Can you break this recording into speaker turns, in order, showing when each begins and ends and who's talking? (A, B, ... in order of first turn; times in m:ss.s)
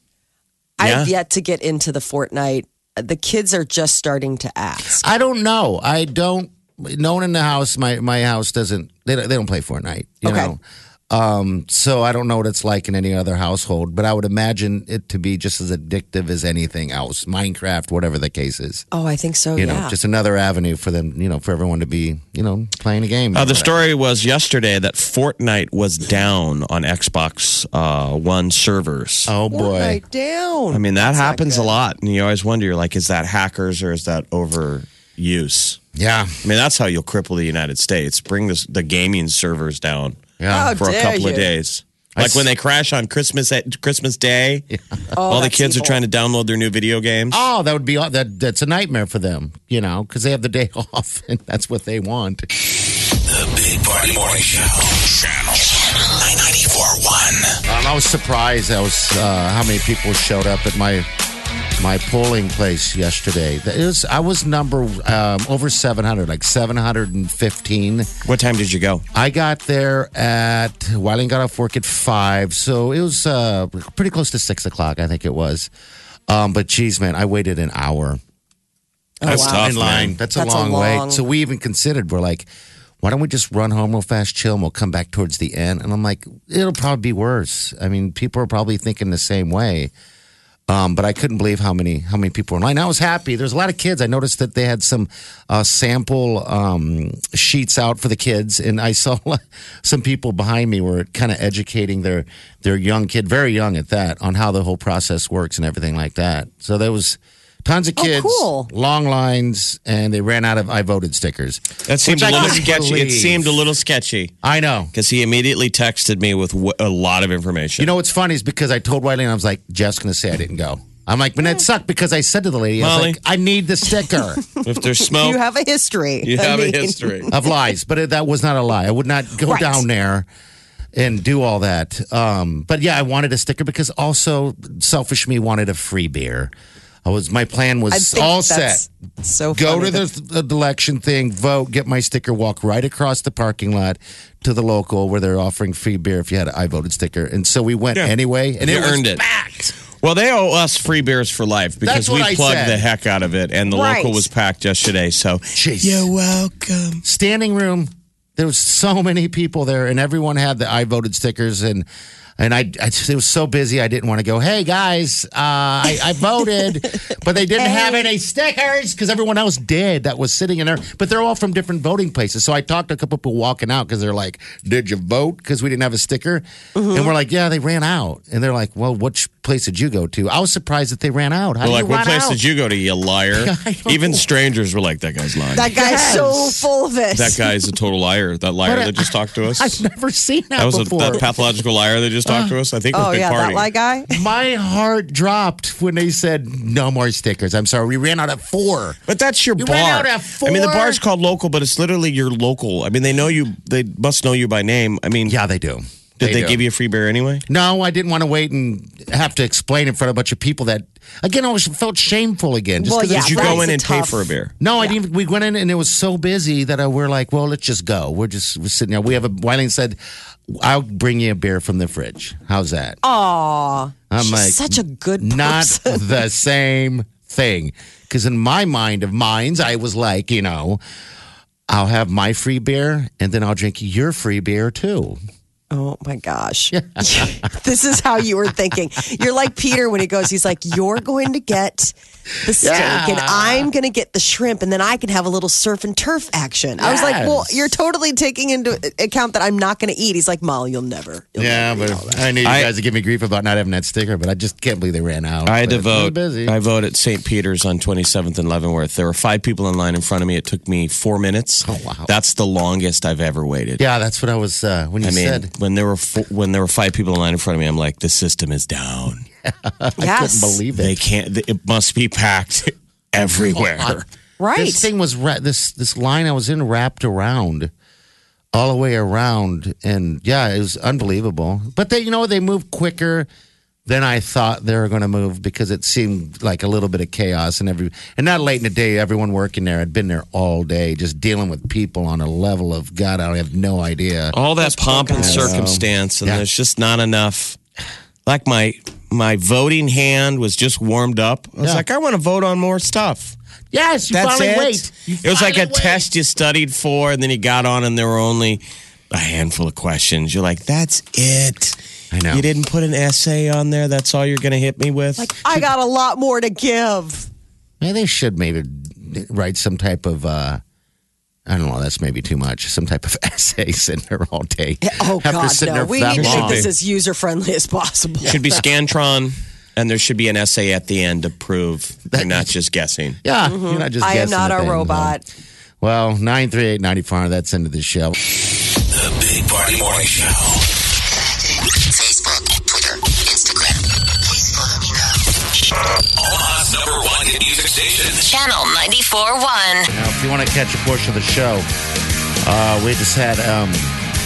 0:00.8-0:05.0 A
0:00.8-0:01.1 B
0:05.0-0:18.8 C
0:10.2-0:10.5 A
0:18.9-0:20.0 A
0:19.6-0:23.8 C
0:23.3-0:29.3 B
0:29.3-0:30.0 C
0:29.5-0:31.8 A
0:30.7-0:35.8 B
0:36.0-0:36.4 C
0:36.4-0:44.7 B
0:40.4-0:40.8 C
0:40.5-0:41.5 A
0:42.2-0:42.5 C
0:45.1-0:46.0 A
0:45.3-0:47.4 B
0:47.3-0:52.5 C
0:53.3-0:57.6 B
0:57.6-1:01.1 C
1:01.8-1:08.1 C
1:08.2-1:09.0 B
1:09.1-1:15.7 C
1:16.3-1:18.2 C
1:19.2-1:19.7 A
1:19.2-1:22.5 C
1:19.2-1:20.2 B
1:20.4-1:21.2 A
1:23.0-1:29.9 C
1:30.7-1:53.6 C
1:48.0-1:48.7 A
1:51.9-1:54.4 B
1:54.4-1:54.9 C
1:54.9-1:57.9 B
1:57.8-2:04.4 C
2:02.8-2:03.2 B
2:04.6-2:07.3 A
2:04.6-2:05.4 B
2:06.2-2:07.3 B
2:07.3-2:10.3 C
2:09.4-2:09.8 A
2:10.9-2:16.5 C
2:17.0-2:18.9 C
2:17.9-2:20.0 A
2:19.5-2:29.8 C
2:27.9-2:29.2 B
2:30.0-2:37.0 B
2:31.8-2:32.8 C
2:33.7-2:34.3 A
2:35.6-2:36.1 C
2:37.0-2:41.9 C
2:42.4-3:02.4 C
2:47.6-2:48.1 A
2:56.8-2:57.1 A
3:01.6-3:05.7 B
3:03.3-3:04.2 C
3:05.6-3:07.5 A
3:05.6-3:06.6 C
3:07.2-3:09.8 B
3:08.6-3:11.2 C
3:10.6-3:13.6 B
3:12.3-3:12.6 C
3:12.9-3:14.2 A
3:14.1-3:19.0 C
3:19.1-3:25.4 B
3:19.6-3:21.0 C
3:25.3-3:26.6 C
3:26.2-3:27.4 B
3:27.5-3:33.7 C
3:32.8-3:34.2 A
3:33.1-3:34.5 B
3:34.6-3:43.0 C
3:43.0-3:46.0 A
3:44.1-3:50.8 C
3:51.7-3:55.2 C
3:55.7-4:12.2 A
3:56.7-3:57.3 C
4:02.6-4:03.7 C
4:06.8-4:07.7 C
4:11.4-4:16.6 C
4:12.4-4:12.7 B
4:15.5-4:23.8 B
4:21.6-4:22.1 C
4:23.8-4:25.5 C
4:25.0-4:29.3 B
4:29.5-4:31.0 C
4:30.0-4:30.6 A
4:30.8-4:34.0 B
4:33.6-4:34.0 C
4:34.4-4:34.9 A
4:34.6-4:37.7 C
4:38.5-4:43.3 C
4:43.9-4:54.4 C
4:54.3-4:57.6 B
4:54.6-4:55.6 A
4:55.2-4:56.4 C
4:58.3-5:03.4 B
5:01.6-5:01.8 C
5:03.7-5:06.1 C
5:04.1-5:11.8 B
5:12.1-5:12.5 C
5:12.3-5:15.5 B
5:15.2-5:17.3 A
5:17.8-5:20.6 C
5:21.5-5:26.7 C
5:24.8-5:28.6 A
5:26.2-5:26.7 B
5:28.2-5:33.2 B
5:32.1-5:32.5 C
5:33.2-5:35.2 C
5:33.4-5:35.2 A
5:35.8-5:38.2 C
5:39.0-5:40.5 D
5:39.2-5:40.4 B
5:41.2-5:45.2 E
5:46.3-5:48.1 D
5:48.1-5:49.9 E
5:49.9-5:51.7 C
5:52.4-5:54.0 C